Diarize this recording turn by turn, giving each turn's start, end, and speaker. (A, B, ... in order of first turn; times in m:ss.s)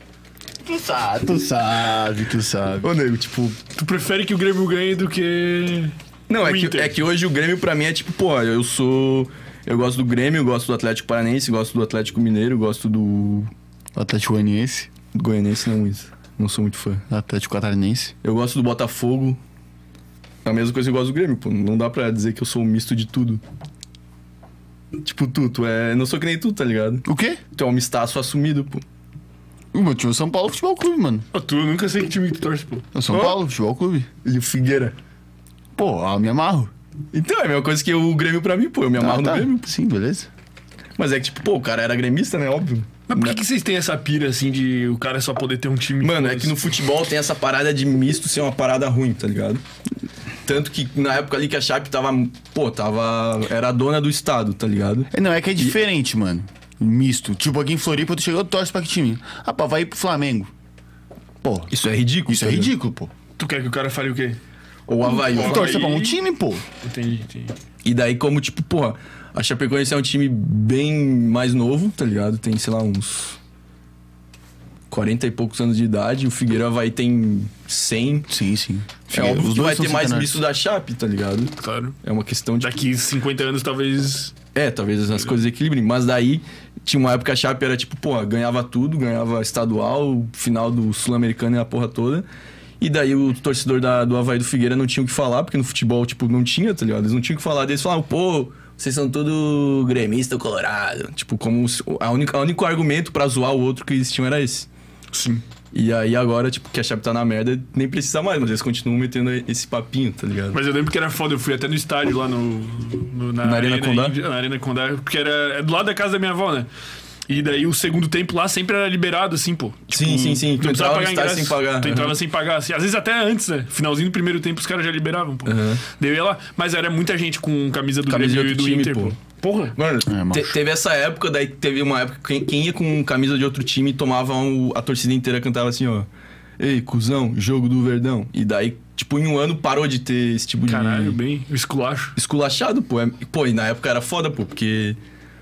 0:00.6-0:02.9 A
0:02.8-0:03.6 B
0:03.8-0:07.0 C
0:06.3-0:13.5 B
0:14.0-0:14.9 A
0:15.1-0:17.0 B
0:17.1-0:18.1 A
0:18.2-0:19.4 B
0:20.4-0:23.4 B
0:25.0-0:28.8 B
0:27.1-0:27.4 A
0:29.7-0:31.3 A
0:31.3-0:32.9 C
0:33.0-0:34.1 A
0:33.1-0:33.4 B
0:34.2-0:35.0 B
0:35.8-0:36.7 A
0:37.1-0:39.7 B
0:39.0-0:40.3 A
0:41.0-0:43.4 B
0:43.1-0:46.6 C
0:46.0-0:49.6 B
0:50.4-0:55.8 B
0:55.1-1:00.5 A
1:01.4-1:01.7 A
1:01.7-1:02.7 B
1:02.3-1:03.1 A
1:03.4-1:04.4 C
1:04.9-1:05.8 B
1:05.1-1:06.6 A
1:05.1-1:06.2 C
1:06.8-1:07.6 C
1:07.8-1:13.4 B
1:14.9-1:18.3 B
1:18.3-1:20.4 A
1:19.1-1:22.7 B
1:21.6-1:22.0 C
1:22.6-1:24.4 C
1:24.6-1:32.2 B
1:32.8-1:44.7 B
1:45.1-1:45.4 C
1:45.7-1:50.6 B
1:50.5-1:56.7 C
1:53.4-1:54.2 B
1:57.3-2:09.8 C
1:59.9-2:02.2 B
2:05.5-2:05.8 B
2:08.1-2:09.2 B
2:09.8-2:16.1 B
2:10.1-2:10.5 A
2:16.6-2:21.2 B
2:20.6-2:22.2 C
2:22.2-2:25.0 B